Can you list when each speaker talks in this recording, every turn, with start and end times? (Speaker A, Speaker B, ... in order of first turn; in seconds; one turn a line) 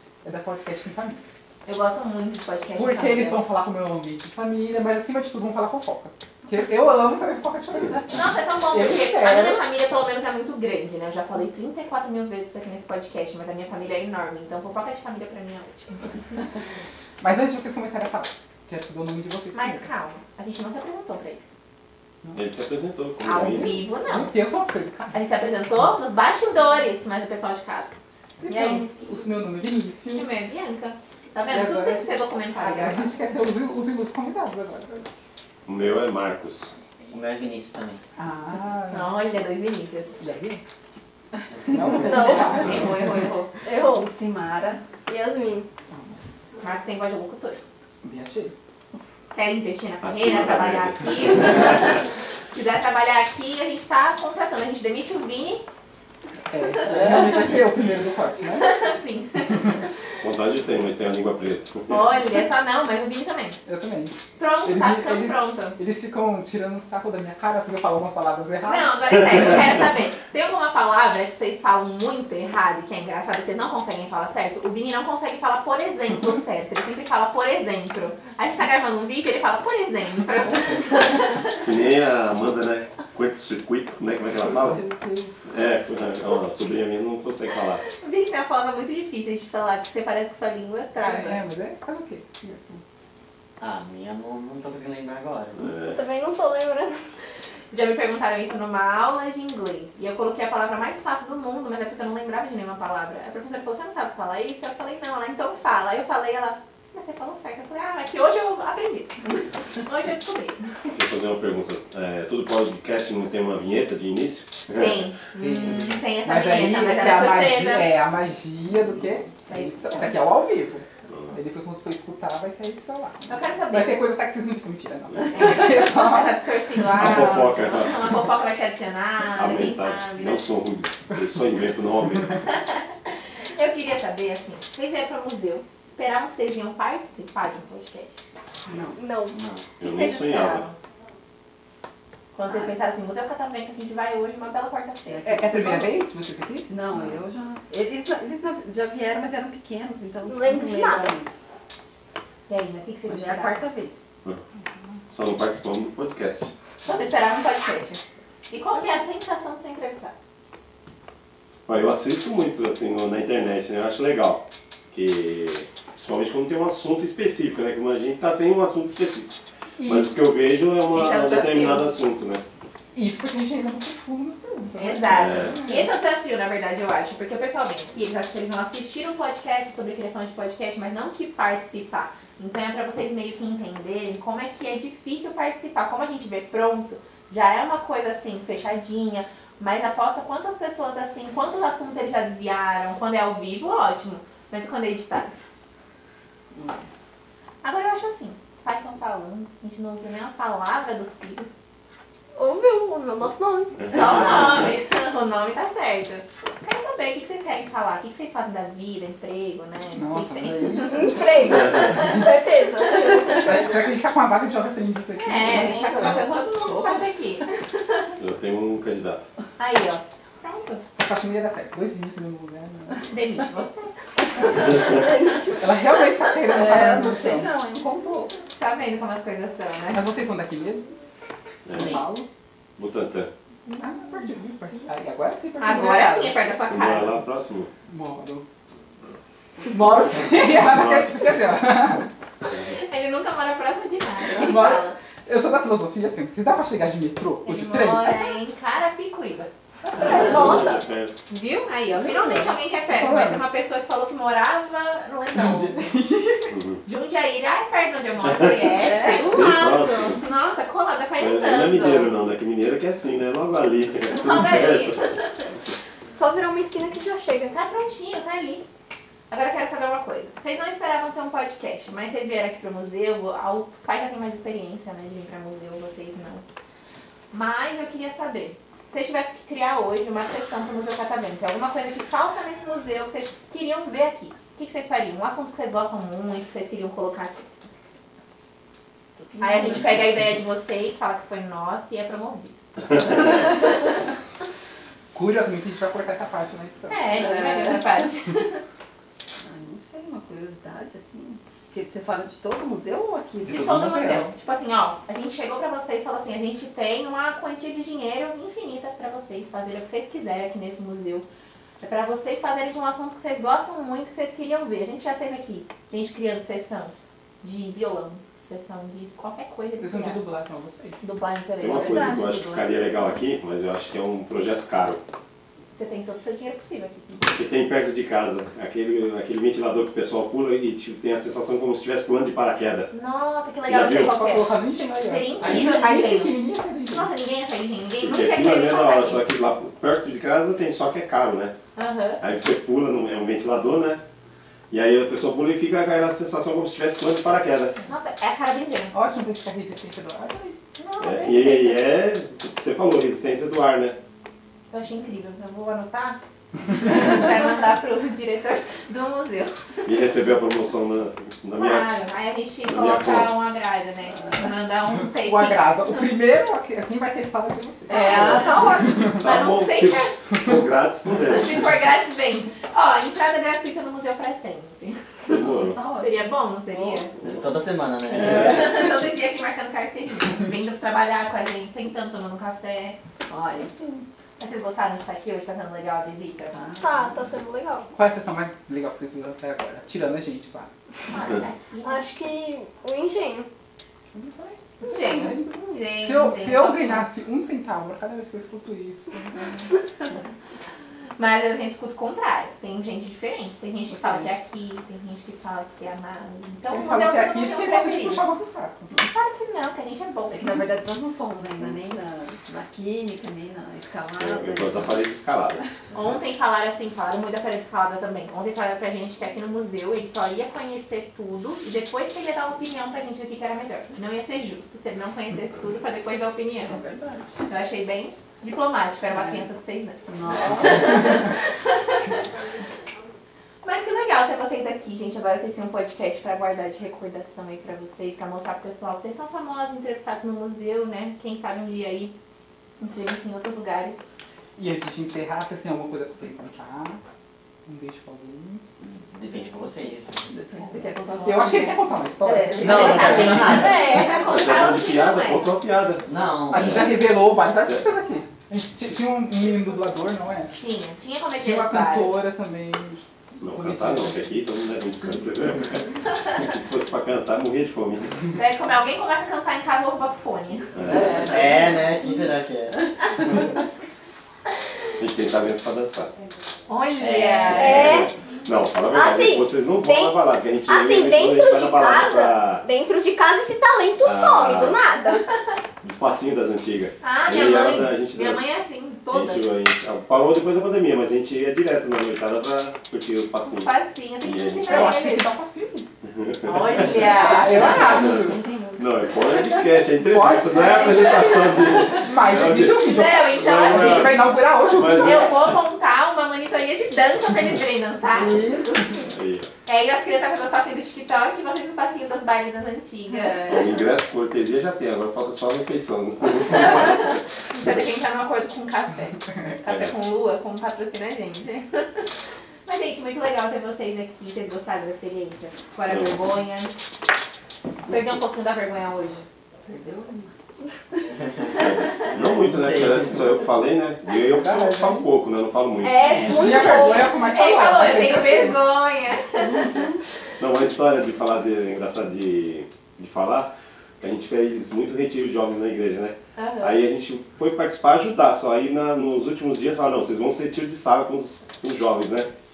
Speaker A: 0.2-1.2
Speaker B: 1.7-3.4
Speaker A: 2.8-9.6
Speaker B: 8.1-16.4
Speaker A: 17.2-19.9
Speaker B: 19.5-21.5
Speaker C: 22.4-23.8
Speaker B: 23.2-24.3
Speaker A: 23.6-25.2
Speaker B: 25.1-27.9
Speaker A: 28.4-30.3
Speaker B: 28.5-28.9
Speaker B: 30.1-33.1
Speaker A: 31.5-35.1
Speaker C: 35.7-36.8
Speaker D: 37.1-38.0
Speaker A: 38.2-39.1
Speaker B: 38.9-40.2
Speaker A: 40.2-40.6
Speaker A: 41.7-43.2
Speaker E: 42.1-42.5
Speaker B: 42.1-43.6
Speaker F: 43.6-44.9
Speaker E: 45.1-45.7
Speaker A: 45.9-46.2
Speaker B: 46.6-47.6
Speaker A: 48.0-48.5
Speaker B: 49.3-55.6
Speaker C: 50.0-52.0
Speaker A: 56.5-58.8
Speaker B: 58.6-59.9
Speaker C: 60.2-62.0
Speaker B: 61.9-63.6
Speaker A: 63.6-69.1
Speaker B: 64.4-65.8
Speaker B: 68.6-81.7
Speaker C: 81.6-84.8
Speaker F: 84.6-85.3
Speaker C: 85.5-87.8
Speaker B: 88.0-91.4
Speaker A: 91.0-92.4
Speaker F: 92.4-92.8
Speaker D: 93.6-95.8
Speaker C: 95.6-96.0
Speaker E: 95.7-97.0
Speaker B: 97.7-110.7
Speaker C: 110.9-115.0
Speaker B: 114.7-117.9
Speaker A: 115.4-126.4
Speaker B: 119.5-120.1
Speaker C: 121.1-121.3
Speaker B: 123.3-124.0
Speaker B: 125.3-130.5
Speaker C: 126.9-128.2
Speaker C: 129.3-132.4
Speaker B: 132.5-138.2
Speaker F: 138.7-139.0
Speaker D: 138.7-139.7
Speaker E: 138.9-139.3
Speaker C: 139.8-140.7
Speaker B: 139.8-140.8
Speaker B: 142.3-145.5
Speaker F: 145.1-145.9
Speaker A: 145.2-146.8
Speaker F: 146.7-151.3
Speaker E: 150.2-151.2
Speaker B: 152.5-153.7
Speaker F: 153.1-154.0
Speaker C: 155.1-156.5
Speaker B: 156.8-160.1
Speaker C: 161.7-172.4
Speaker A: 169.8-170.2
Speaker B: 170.9-171.9
Speaker A: 172.9-175.9
Speaker B: 174.8-195.3
Speaker C: 175.1-175.6
Speaker F: 196.5-196.8
Speaker B: 197.6-201.6
Speaker E: 202.4-203.9
Speaker C: 203.8-204.7
Speaker B: 203.9-212.3
Speaker A: 209.9-211.6
Speaker E: 211.0-213.8
Speaker F: 211.2-212.1
Speaker F: 212.9-213.5
Speaker A: 213.3-216.3
Speaker B: 215.2-218.1
Speaker F: 215.6-216.3
Speaker C: 218.2-219.3
Speaker B: 219.6-220.8
Speaker A: 221.0-223.0
Speaker B: 223.1-224.9
Speaker F: 224.7-225.4
Speaker E: 225.3-225.5
Speaker A: 225.5-227.5
Speaker F: 226.4-228.3
Speaker B: 228.5-230.1
Speaker A: 229.9-230.9
Speaker C: 231.7-232.0
Speaker A: 231.7-232.3
Speaker C: 232.8-233.3
Speaker B: 233.7-234.1
Speaker A: 233.8-236.3
Speaker B: 235.6-237.2
Speaker C: 236.7-237.7
Speaker A: 237.9-238.5
Speaker A: 239.6-242.1
Speaker C: 240.6-241.5
Speaker B: 242.5-245.0
Speaker A: 244.4-248.3
Speaker B: 247.4-249.5
Speaker A: 249.8-250.6
Speaker C: 250.0-251.1
Speaker F: 250.0-250.3
Speaker E: 250.2-250.8
Speaker B: 251.3-255.8
Speaker A: 251.9-253.4
Speaker A: 255.3-256.5
Speaker C: 256.5-256.8
Speaker B: 256.9-259.4
Speaker C: 258.2-258.5
Speaker F: 258.9-259.3
Speaker C: 259.1-260.2
Speaker E: 259.2-259.9
Speaker B: 260.2-262.1
Speaker C: 261.2-265.0
Speaker B: 264.1-265.5
Speaker E: 266.1-267.6
Speaker B: 267.5-268.6
Speaker B: 269.3-276.4
Speaker B: 277.3-287.5
Speaker F: 289.2-289.9
Speaker B: 289.4-292.6
Speaker B: 293.1-293.6
Speaker A: 295.1-297.2
Speaker B: 296.9-298.6
Speaker F: 297.3-298.0
Speaker F: 299.4-303.6
Speaker B: 303.4-311.3
Speaker A: 303.5-304.3
Speaker B: 311.8-320.2
Speaker A: 319.8-321.0
Speaker B: 321.0-322.2
Speaker C: 321.6-325.0
Speaker F: 321.7-323.1
Speaker B: 325.8-327.4
Speaker C: 327.3-332.9
Speaker B: 332.9-339.2
Speaker C: 333.7-334.1
Speaker A: 333.9-337.1
Speaker C: 335.4-335.7
Speaker C: 338.0-341.5
Speaker B: 341.8-342.2
Speaker C: 342.2-344.0
Speaker C: 344.7-347.8
Speaker B: 347.9-348.9
Speaker A: 348.9-350.6
Speaker B: 350.8-351.8
Speaker C: 351.0-354.0
Speaker B: 354.7-359.9
Speaker C: 359.8-361.9
Speaker B: 361.6-366.1
Speaker C: 362.6-363.3
Speaker A: 365.1-368.1
Speaker B: 367.9-370.2
Speaker F: 367.9-368.9
Speaker C: 369.2-371.7
Speaker B: 371.3-375.1
Speaker C: 375.3-375.8
Speaker F: 375.3-377.0
Speaker B: 376.0-377.1
Speaker D: 377.2-378.8
Speaker B: 378.1-383.0
Speaker F: 383.3-383.7
Speaker B: 384.4-387.1
Speaker E: 386.8-387.9
Speaker A: 387.9-390.7
Speaker B: 391.1-392.1
Speaker E: 391.8-393.5
Speaker A: 394.1-395.5
Speaker B: 394.8-397.1
Speaker A: 396.0-399.6
Speaker B: 401.2-408.3
Speaker A: 406.7-408.9
Speaker B: 408.9-410.6
Speaker F: 410.3-414.9
Speaker C: 414.2-415.6
Speaker B: 415.9-426.8
Speaker F: 426.6-427.4
Speaker B: 427.4-432.2
Speaker F: 430.1-431.1
Speaker B: 433.6-442.1
Speaker B: 442.8-444.1
Speaker A: 444.6-447.0
Speaker A: 447.7-448.6
Speaker D: 448.8-450.3
Speaker F: 450.3-451.9
Speaker A: 451.2-454.1
Speaker B: 452.2-455.5
Speaker D: 452.6-454.1
Speaker C: 453.5-456.9
Speaker D: 456.1-457.0
Speaker A: 456.5-460.6
Speaker B: 460.5-462.2
Speaker A: 461.4-464.3
Speaker C: 463.4-468.2
Speaker B: 468.3-471.2
Speaker C: 470.8-471.6
Speaker F: 470.9-471.7
Speaker D: 471.2-472.8
Speaker C: 475.0-476.1
Speaker B: 476.7-478.0
Speaker D: 477.0-477.9
Speaker C: 477.5-482.7
Speaker E: 477.6-478.1
Speaker E: 478.9-480.1
Speaker E: 480.7-485.2
Speaker C: 484.0-484.8
Speaker B: 484.9-485.2
Speaker C: 485.8-488.5
Speaker B: 487.0-489.5
Speaker C: 489.1-495.1
Speaker B: 493.4-495.3
Speaker A: 494.7-495.9
Speaker C: 496.0-497.2
Speaker B: 496.4-498.1
Speaker A: 496.9-498.4
Speaker F: 497.4-499.3
Speaker C: 497.9-498.2
Speaker C: 498.8-505.6
Speaker A: 500.0-505.6
Speaker B: 500.5-509.0
Speaker F: 508.1-509.1
Speaker C: 509.1-509.5
Speaker B: 509.7-513.7
Speaker C: 513.5-517.2
Speaker B: 516.5-522.1
Speaker C: 519.7-519.9
Speaker B: 522.7-526.8
Speaker C: 525.9-526.2
Speaker B: 527.9-529.3
Speaker F: 529.6-531.7
Speaker C: 531.5-536.6
Speaker D: 532.1-533.4
Speaker A: 534.2-535.1
Speaker B: 535.8-539.9
Speaker D: 536.0-536.9
Speaker A: 536.2-538.6
Speaker F: 539.4-540.0
Speaker C: 540.4-552.3
Speaker B: 546.4-546.8